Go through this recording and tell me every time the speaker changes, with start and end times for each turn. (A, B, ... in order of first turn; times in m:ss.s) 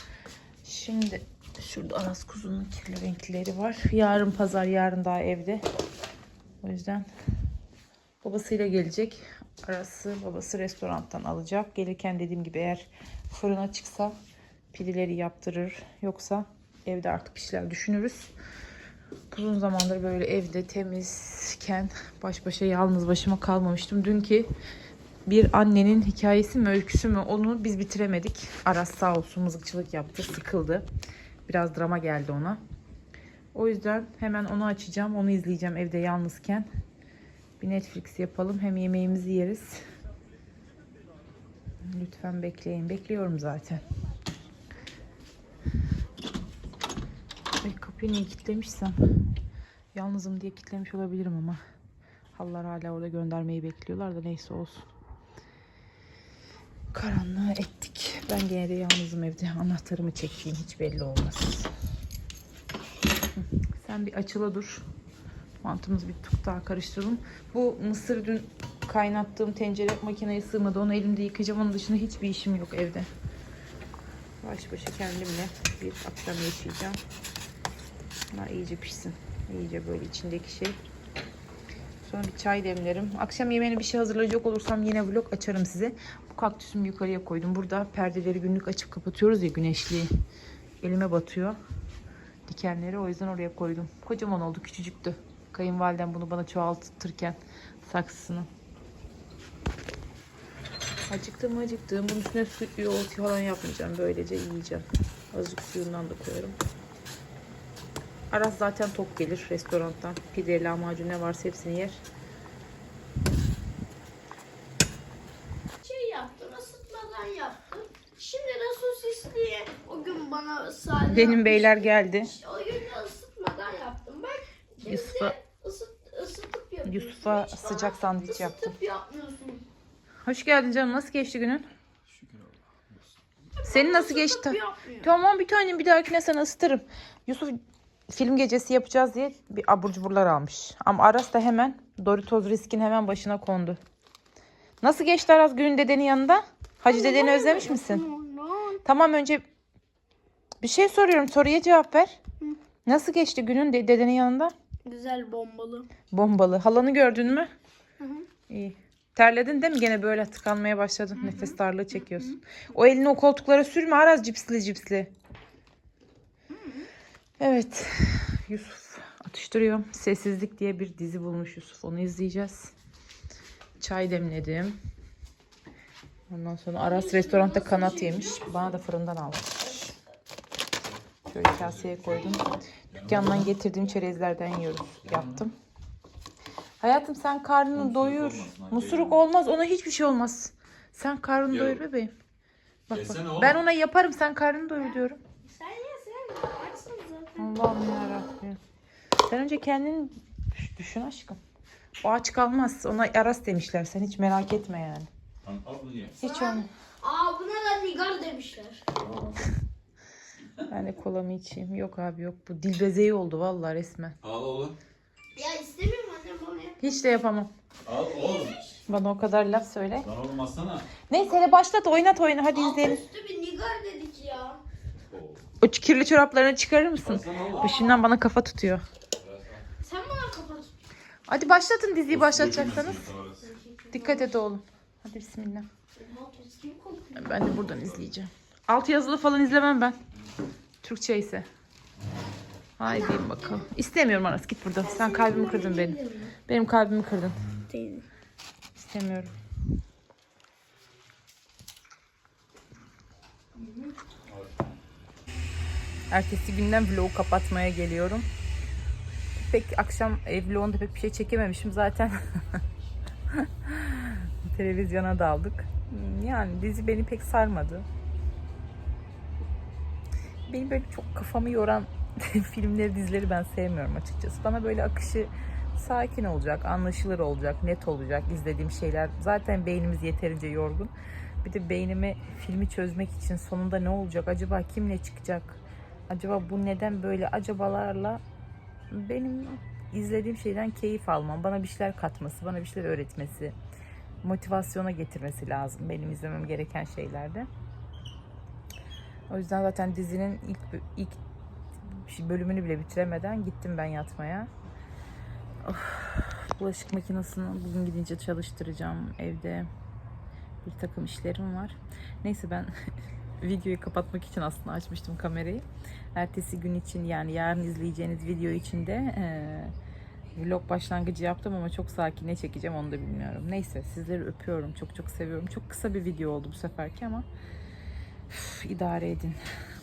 0:00.6-0:05.6 A
0:06.6-0:07.1 A
0:08.2-0:14.1 A
0:14.7-0:18.3 A
0:19.3-0:24.5 A
0:25.2-0:30.8 A
0:31.5-0:32.6 A
0:33.5-0:36.7 A
0:37.6-0:39.8 A
0:41.9-0:43.8 A
0:47.6-0:49.0 A
0:49.9-0:51.6 A
0:52.3-0:54.9 A
0:56.9-1:01.7 A
1:03.3-1:04.8 A
1:05.6-1:13.1 A
1:14.4-1:17.0 A
1:18.3-1:20.8 A
1:22.0-1:30.1 A
1:30.8-1:31.6 A
1:32.5-1:38.5 A
1:41.1-1:46.6 A
1:48.3-1:52.0 A
1:55.8-2:09.6 B
2:01.0-2:02.3 A
2:04.8-2:05.4 A
2:06.8-2:08.8 A
2:10.2-2:11.6 A
2:12.1-2:12.5 C
2:13.6-2:15.1 B
2:13.6-2:23.8 A
2:24.8-2:28.0 A
2:26.9-2:28.8 B
2:28.8-2:29.4 A
2:30.6-2:32.2 A
2:32.8-2:34.5 A
2:34.8-2:35.9 B
2:36.1-2:37.5 A
2:38.0-2:38.3 B
2:38.5-2:45.1 A
2:41.2-2:41.5 B
2:46.5-2:46.9 B
2:47.4-2:52.7 A
2:53.8-2:54.8 A
2:56.3-2:59.9 A
2:56.8-2:58.8 B
2:59.6-2:59.9 B
3:01.3-3:05.5 A
3:01.4-3:03.5 C
3:05.0-3:05.4 C
3:06.8-3:12.1 A
3:07.7-3:09.2 C
3:11.5-3:11.8 C
3:12.9-3:15.2 A
3:12.9-3:13.6 C
3:14.8-3:18.2 B
3:17.4-3:18.6 A
3:19.2-3:21.4 A
3:22.0-3:25.1 A
3:25.4-3:26.2 C
3:26.2-3:26.7 A
3:26.2-3:28.8 B
3:28.9-3:29.5 C
3:30.7-3:34.2 A
3:34.2-3:34.8 C
3:35.3-3:36.9 B
3:36.8-3:37.5 A
3:37.8-3:38.6 C
3:38.9-3:40.1 A
3:40.0-3:41.0 C
3:41.1-3:43.0 A
3:42.5-3:44.6 B
3:45.1-3:45.4 C
3:45.6-3:48.8 A
3:47.0-3:48.0 C
3:49.2-3:49.6 C
3:49.8-3:50.7 B
3:51.3-3:53.1 A
3:52.1-3:53.5 C
3:53.4-3:54.3 B
3:53.9-3:55.7 A
3:56.0-3:57.6 B
3:57.1-4:00.0 A
4:00.8-4:01.4 A
4:02.8-4:07.4 A
4:02.8-4:03.6 B
4:04.8-4:06.3 B
4:07.7-4:08.1 B
4:08.8-4:09.4 A
4:13.6-4:13.9 B
4:14.3-4:14.6 C
4:16.1-4:18.3 A
4:19.4-4:22.4 A
4:23.3-4:27.8 A
4:30.5-4:40.9 A
4:41.4-4:48.2 A
4:48.9-4:53.6 A
4:54.2-4:57.5 A
4:59.3-5:01.2 A
5:01.9-5:04.5 A
5:05.6-5:09.7 A
5:10.6-5:12.7 A
5:13.4-5:19.7 A
5:20.3-5:27.2 A
5:28.3-5:29.4 A